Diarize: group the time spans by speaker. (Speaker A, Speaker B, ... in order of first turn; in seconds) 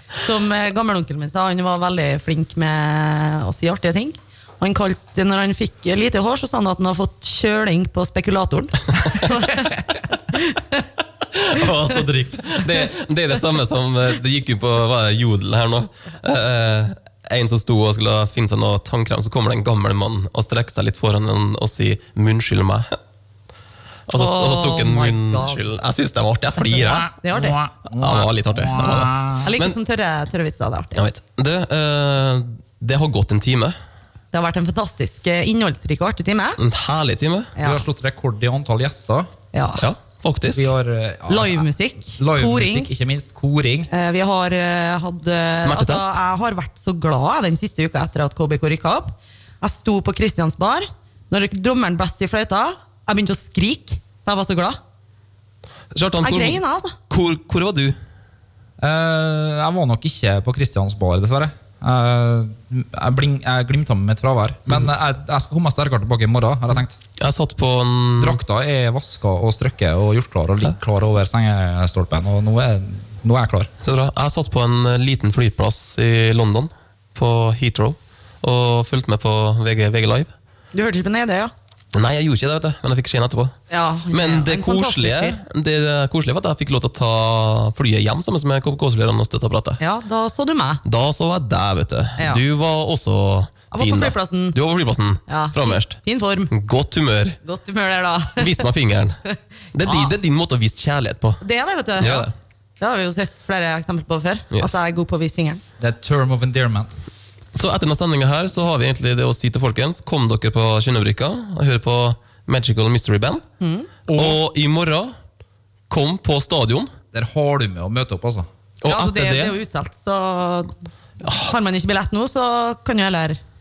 Speaker A: 0.2-9.8, 10.3-10.8, 24.1-25.6, 27.2-27.6, 29.4-31.0, 34.3-36.6, 37.6-37.8, 39.5-39.9, 41.3-42.9, 43.9-54.8, 56.2-56.9, 80.7-81.5, 83.7-85.4, 89.8-90.8, 92.2-92.4, 93.7-94.6, 95.3-96.5, 97.4-98.6, 99.8-100.1, 101.4-105.6, 113.6-113.9, 118.8-120.7, 121.3-123.4
Speaker B: 9.4-10.0, 26.7-29.5, 37.6-39.3, 40.5-43.9, 58.8-67.0, 68.2-73.7, 105.8-106.9, 114.1-114.4, 117.1-118.5
Speaker C: 11.3-23.0, 24.1-27.1, 27.9-29.8, 30.9-33.8, 36.6-37.5, 39.8-40.7, 45.6-46.2, 55.9-58.0, 67.2-68.4, 73.8-80.3, 81.9-83.6, 84.1-89.8, 90.8-96.0, 96.5-97.4, 98.4-99.2, 99.8-101.4, 102.0-102.3, 104.5-104.8, 107.5-113.5, 114.1-115.2, 115.9-116.9, 118.8-119.5, 121.2-121.6